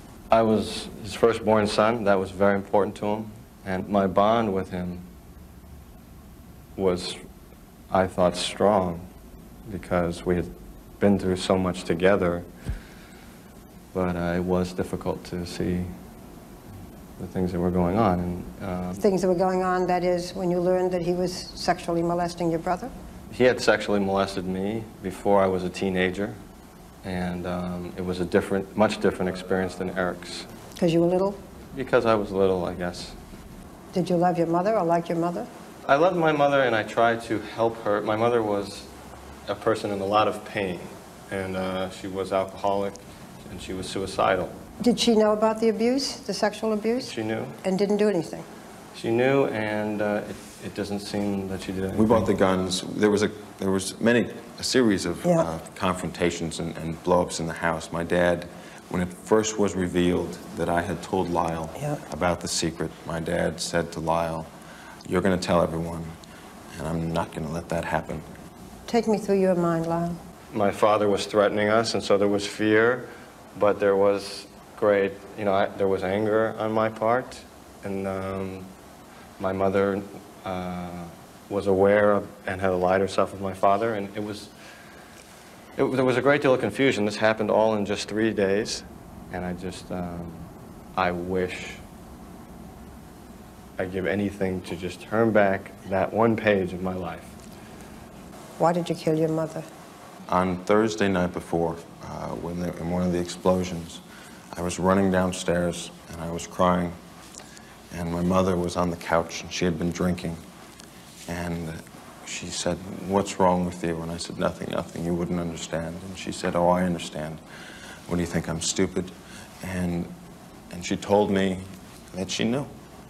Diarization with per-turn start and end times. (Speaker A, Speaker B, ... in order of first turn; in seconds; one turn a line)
Speaker A: 0.3-5.0
Speaker A: 6.8-7.2
Speaker A: 7.9-9.1
Speaker A: 9.7-12.5
Speaker A: 13.9-15.9
Speaker A: 17.2-19.0
Speaker B: 19.0-22.9
Speaker A: 23.3-26.4
Speaker A: 27.0-30.5
Speaker B: 30.8-31.4
Speaker A: 31.7-33.1
Speaker B: 33.9-35.5
Speaker A: 35.9-38.9
Speaker A: 39.5-44.5
Speaker B: 44.8-48.4
Speaker A: 47.0-47.6
Speaker A: 48.9-52.2
Speaker C: 51.9-64.5
Speaker B: 61.7-62.0
Speaker C: 65.0-66.2
Speaker C: 66.7-68.2
Speaker B: 68.9-70.2
Speaker A: 70.5-78.7
Speaker A: 79.4-84.5
Speaker A: 85.8-91.8
Speaker A: 93.8-97.3
Speaker B: 98.6-99.7
Speaker C: 100.3-104.0
Speaker C: 104.5-107.0
Speaker C: 107.9-110.4
Speaker C: 111.3-117.4
Speaker C: 118.1-120.1
Speaker C: 120.7-122.7